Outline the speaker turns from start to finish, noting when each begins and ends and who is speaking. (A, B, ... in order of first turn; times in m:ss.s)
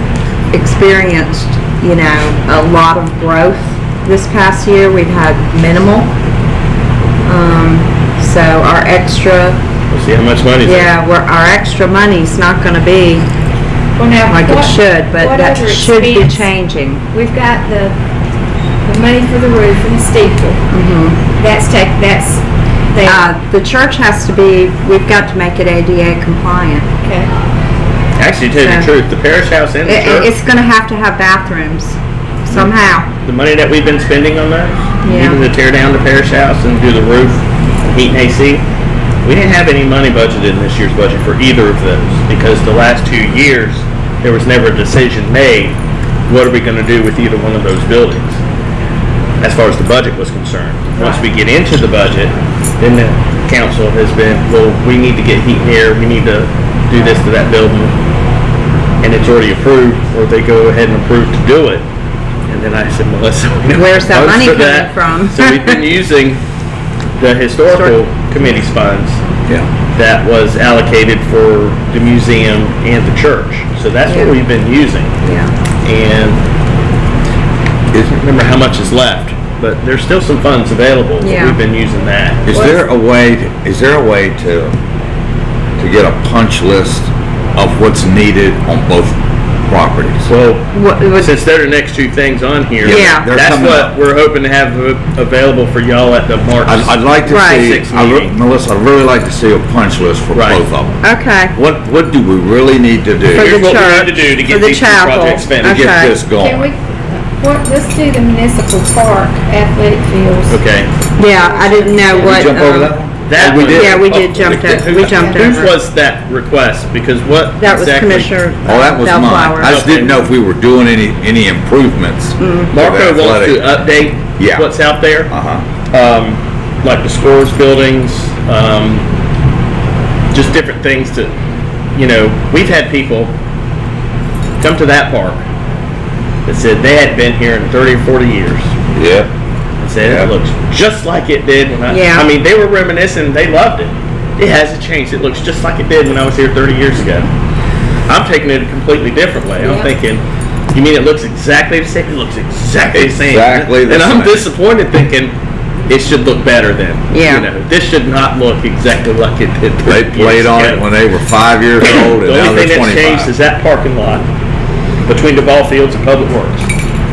0:00.5-0:06.1 A
0:07.3-0:09.6 A
0:09.9-0:10.9 B
0:10.6-0:13.3 A
0:14.0-0:16.5 C
0:14.3-0:17.0 A
0:17.1-0:18.0 C
0:18.8-0:20.6 C
0:20.7-0:21.2 A
0:21.4-0:23.3 C
0:23.0-0:26.9 A
0:27.0-0:27.3 C
0:28.2-0:30.3 B
0:28.6-0:28.9 A
0:29.9-0:33.1 A
0:33.2-0:38.6 B
0:35.0-0:35.4 A
0:39.2-0:45.8 B
0:46.3-0:48.4 B
0:49.4-0:57.9 B
0:59.0-1:01.8 B
1:02.5-1:06.4 B
1:03.7-1:05.8 A
1:07.2-1:09.2 B
1:09.9-1:15.1 B
1:14.1-1:14.4 A
1:15.2-1:15.5 A
1:15.8-1:16.4 B
1:18.1-1:22.4 B
1:21.2-1:21.6 A
1:22.5-1:24.7 D
1:22.5-1:22.8 C
1:25.8-1:30.3 D
1:30.3-1:38.3 B
1:30.7-1:31.3 A
1:32.8-1:33.9 D
1:32.8-1:33.3 A
1:36.7-1:41.0 D
1:37.3-1:37.7 A
1:40.3-1:40.6 B
1:41.0-1:41.5 A
1:41.6-1:43.6 D
1:43.3-1:46.2 A
1:43.3-1:45.9 B
1:45.6-1:46.7 D
1:46.4-1:50.6 C
1:50.5-1:50.9 B
1:51.2-1:52.8 C
1:51.2-1:52.9 A
1:52.2-1:55.0 D
1:53.3-1:58.4 B
1:53.5-1:55.7 A
1:54.9-1:55.8 C
1:57.6-1:59.8 A
1:58.6-2:03.7 D
1:59.6-2:00.2 B
2:02.4-2:02.7 A
2:02.7-2:05.3 B
2:04.4-2:05.6 D
2:05.9-2:09.0 B
2:10.3-2:11.3 B
2:11.9-2:13.3 B
2:14.6-2:15.4 B
2:16.4-2:18.7 B
2:18.9-2:19.3 D
2:19.8-2:27.3 B
2:20.0-2:20.3 D
2:21.9-2:22.3 A
2:28.1-2:35.3 B
2:29.6-2:29.9 A
2:32.9-2:34.5 D
2:35.9-2:40.9 B
2:37.1-2:37.5 A
2:39.8-2:43.3 D
2:41.8-2:44.3 B
2:45.1-2:46.7 B